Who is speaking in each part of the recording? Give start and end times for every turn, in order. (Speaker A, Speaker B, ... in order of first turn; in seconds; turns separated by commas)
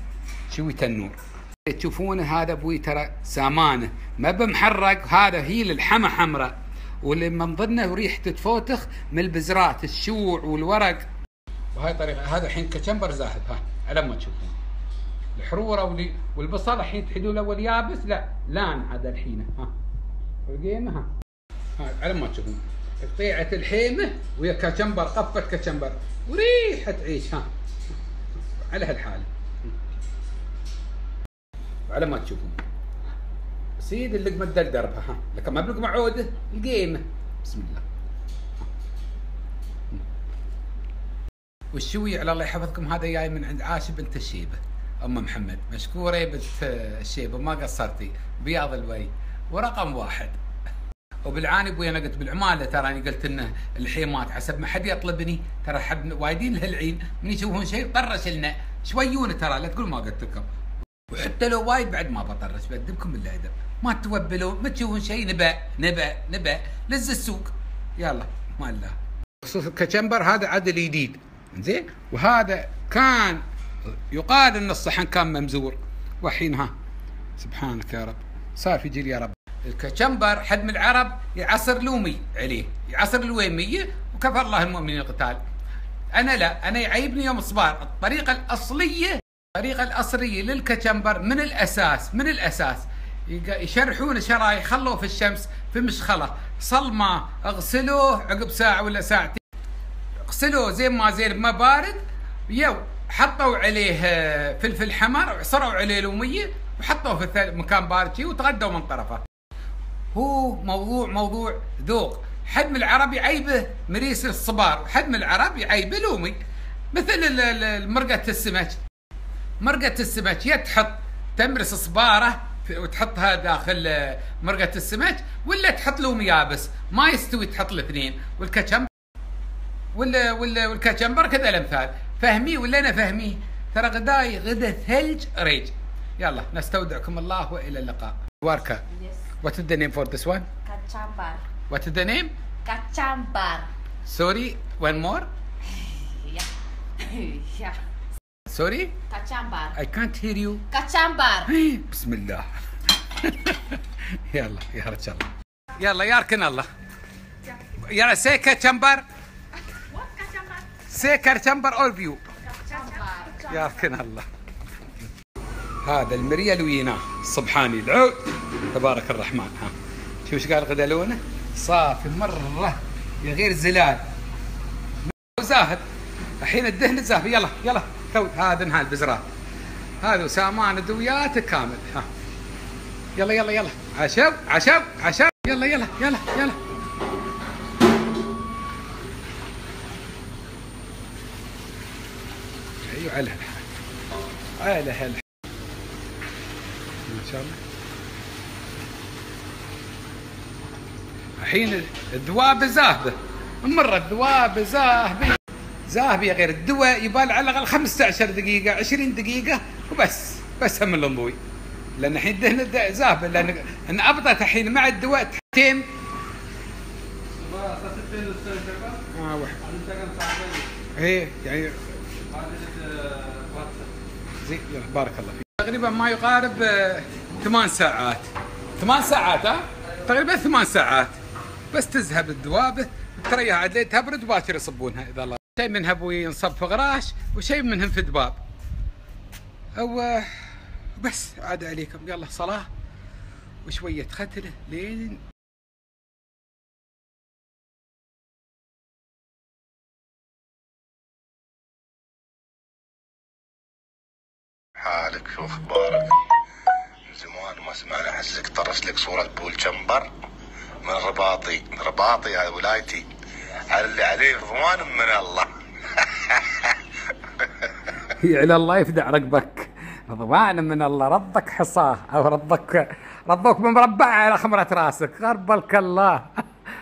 Speaker A: 0.5-11.1, Speaker A: 11.8-14.6, Speaker A: 15.4-19.7, Speaker A: 20.5-21.1, Speaker A: 21.8-27.5, Speaker A: 28.5-29.7, Speaker A: 31.9-32.6, Speaker A: 33.8-37.8, Speaker A: 41.7-50.4, Speaker A: 51.3-60.5, Speaker A: 61.1-73.4, Speaker A: 74.1-76.7, Speaker A: 77.4-85.4, Speaker A: 86.2-99.4, Speaker A: 100.3-109.2, Speaker A: 110.1-116.4, Speaker A: 116.9-118.8, Speaker A: 119.6-128.9, Speaker A: 129.9-138.8, Speaker B: 138.9-139.2, Speaker A: 139.4-140.5, Speaker B: 140.7-141.4, Speaker A: 141.7-142.3, Speaker B: 142.7-143.7, Speaker A: 144.1-145.3, Speaker B: 145.7-146.5, Speaker B: 147.0-147.8, Speaker A: 148.5-148.9, Speaker B: 149.1-149.8, Speaker A: 149.7-150.6, Speaker B: 150.7-151.5, Speaker A: 151.5-156.7, Speaker A: 157.9-159.1, Speaker B: 160.0-160.4, Speaker A: 160.9-162.2, Speaker B: 162.5-163.8, Speaker A: 163.5-164.3, Speaker A: 165.8-169.7, Speaker A: 170.3-174.0, Speaker A: 175.1-175.8, Speaker A: 176.4-179.2, Speaker A: 180.0-182.1, Speaker A: 183.2-186.6, Speaker A: 192.9-193.7, Speaker A: 194.6-195.2, Speaker A: 197.1-197.6, Speaker A: 201.4-205.4, Speaker A: 205.9-211.4, Speaker A: 212.0-215.8, Speaker A: 219.1-219.6, Speaker A: 221.0-221.8, Speaker A: 224.4-231.2, Speaker A: 231.7-238.4, Speaker A: 239.8-242.7, Speaker A: 243.7-245.2, Speaker C: 254.8-256.1, Speaker C: 257.1-260.1, Speaker C: 260.9-263.1, Speaker C: 263.7-265.5, Speaker A: 268.2-276.4